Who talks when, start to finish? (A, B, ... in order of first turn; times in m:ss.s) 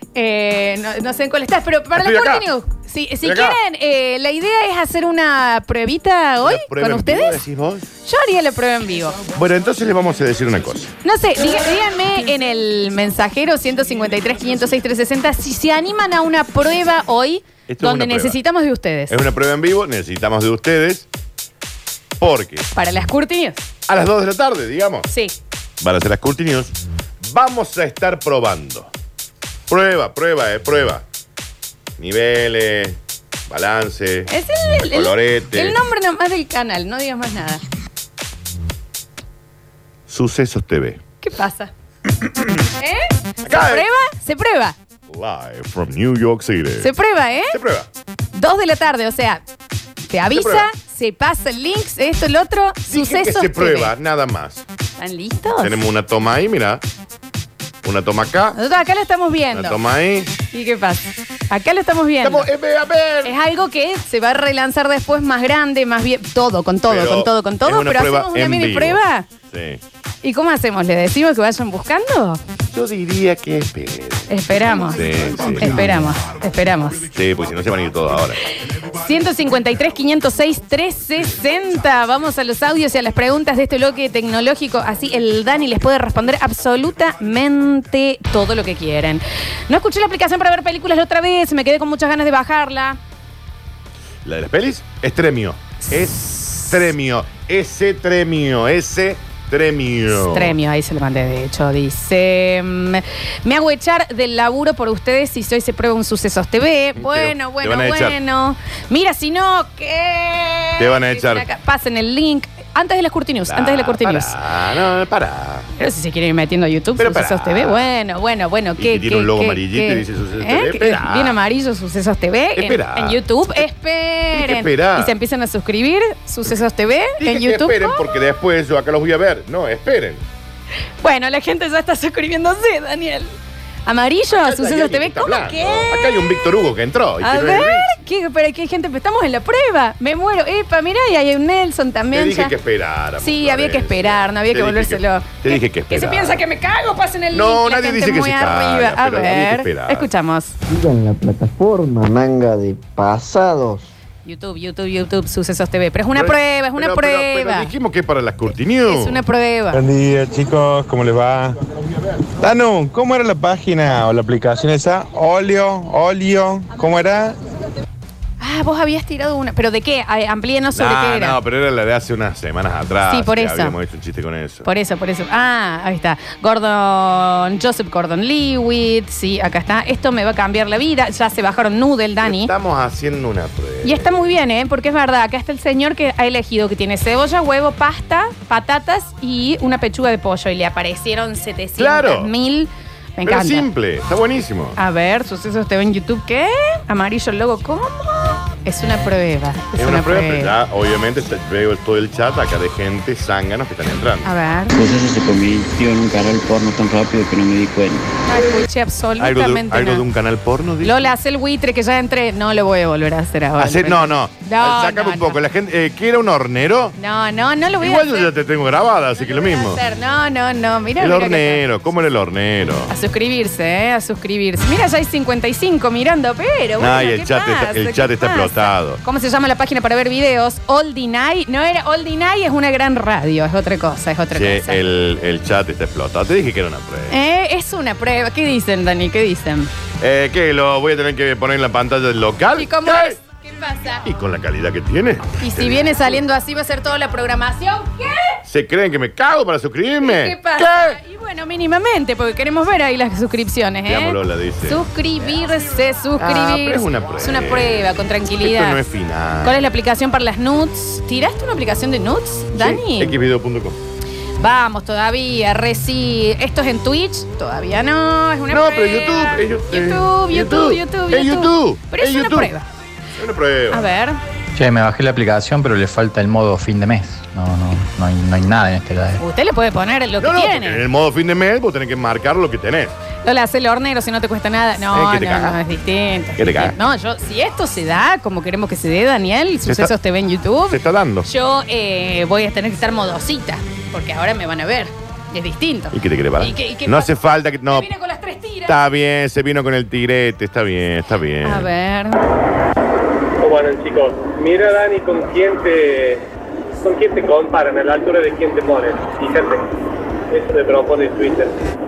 0:00.2-0:07.4 A
0:02.0-0:02.5 B
0:03.2-0:03.6 B
0:06.4-0:07.9 B
0:08.0-0:09.2 A
0:09.4-0:10.9 B
0:11.0-0:19.2 A
0:17.7-0:18.4 B
0:19.1-0:21.1 B
0:22.2-0:22.7 B
0:22.7-0:23.6 A
0:23.9-0:25.1 B
0:25.1-0:25.4 A
0:25.8-0:28.9 B
0:29.7-0:31.0 B
0:32.0-0:33.0 B
0:33.5-0:35.8 B
0:34.3-0:37.6 A
0:40.1-0:41.0 B
0:41.2-0:41.7 A
0:42.8-0:44.8 A
0:43.4-0:43.8 B
0:45.1-0:46.9 B
0:46.8-0:47.6 A
0:47.5-0:47.9 B
0:48.3-0:49.4 A
0:50.1-0:53.9 A
0:50.3-0:50.7 B
0:52.9-0:54.6 B
0:55.0-0:55.8 A
0:55.6-0:56.8 B
0:57.8-0:58.6 B
0:58.6-0:59.8 A
0:59.5-1:00.3 B
1:00.5-1:02.5 A
1:02.2-1:03.3 B
1:03.2-1:09.3 A
1:06.9-1:09.8 B
1:10.2-1:12.4 A
1:12.7-1:16.1 B
1:14.3-1:17.1 A
1:17.1-1:18.4 B
1:19.0-1:33.0 A
1:34.2-1:40.5 B
1:40.1-1:54.3 A
1:47.0-1:48.2 B
1:50.8-1:51.5 B
1:53.5-1:55.7 B
1:55.8-2:08.0 A
1:57.0-1:57.9 B
1:58.8-2:01.4 B
2:02.6-2:03.2 B
2:04.3-2:05.2 B
2:07.2-2:10.2 B
2:11.0-2:16.3 A
2:14.3-2:17.9 B
2:17.2-2:22.5 A
2:22.1-2:26.4 B
2:23.2-2:30.5 A
2:27.3-2:30.1 B
2:30.7-2:33.9 C
2:34.2-2:37.7 A
2:36.1-2:39.2 B
2:38.9-2:39.8 A
2:39.7-2:41.7 D
2:42.2-2:47.4 D
2:48.4-2:51.4 A
2:50.7-2:54.7 B
2:53.1-2:53.8 A
2:54.6-3:02.5 A
3:02.2-3:04.3 B
3:03.8-3:13.7 A
3:11.8-3:12.3 B
3:13.2-3:14.8 B
3:14.8-3:20.5 A
3:19.8-3:24.3 B
3:24.2-3:24.8 A
3:24.7-3:28.1 E
3:28.3-3:30.0 A
3:29.2-3:31.1 B
3:30.8-3:35.4 A
3:33.6-3:37.0 B
3:37.0-3:38.3 A
3:37.8-3:39.8 B
3:39.2-3:41.6 A
3:41.0-3:42.9 B
3:42.9-3:54.8 A
3:46.8-3:49.0 B
3:54.3-3:57.2 B
3:57.1-3:59.7 A
4:00.0-4:03.2 B
4:02.6-4:04.0 A
4:04.0-4:06.2 B
4:05.4-4:08.4 A
4:08.4-4:11.0 B
4:10.0-4:18.8 A
4:13.9-4:15.4 B
4:16.2-4:17.9 B
4:18.4-4:19.6 B
4:19.4-4:23.2 A
4:22.6-4:23.8 B
4:24.4-4:32.7 A
4:28.5-4:32.5 B
4:33.2-4:33.9 B
4:33.7-4:34.2 A
4:34.6-4:39.2 F
4:39.2-4:40.8 A
4:40.2-4:43.0 B
4:43.2-4:57.1 A
4:44.9-4:45.6 B
4:46.4-4:46.8 B
4:49.7-4:49.9 B
4:50.7-4:51.3 B
4:55.9-4:57.9 B
4:57.7-4:58.8 A
4:58.7-5:01.7 B
5:01.4-5:02.2 A
5:03.4-5:06.3 G
5:06.8-5:09.7 G
5:10.3-5:11.6 G